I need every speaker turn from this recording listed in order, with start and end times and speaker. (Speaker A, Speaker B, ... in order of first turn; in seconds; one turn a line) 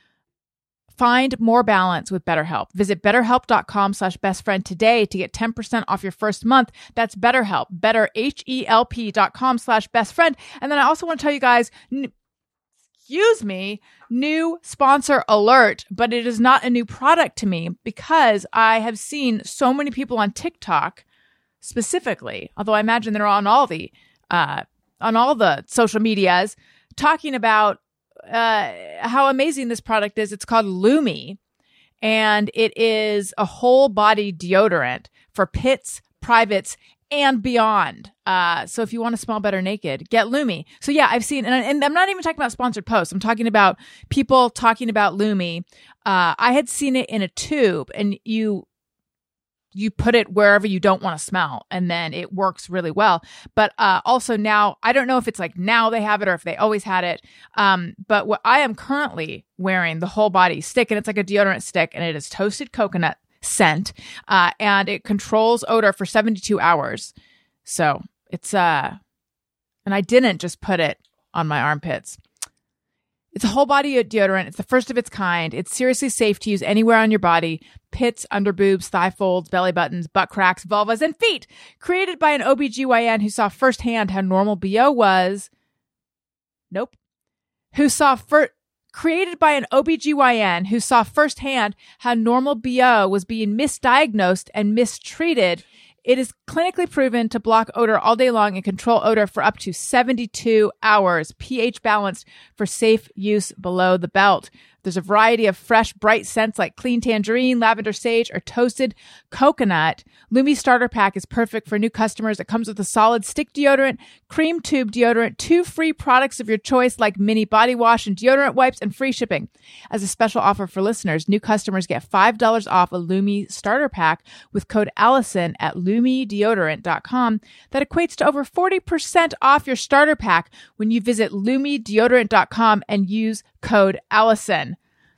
Speaker A: 1.0-12.1
Speaker A: 13.1-21.0
Speaker A: 21.6-31.4
Speaker A: 32.0-48.6
Speaker A: 49.7-67.1
Speaker A: 67.6-69.0
Speaker A: 69.8-72.2
Speaker A: 73.3-85.5
Speaker A: 86.7-87.0
Speaker A: 87.7-134.8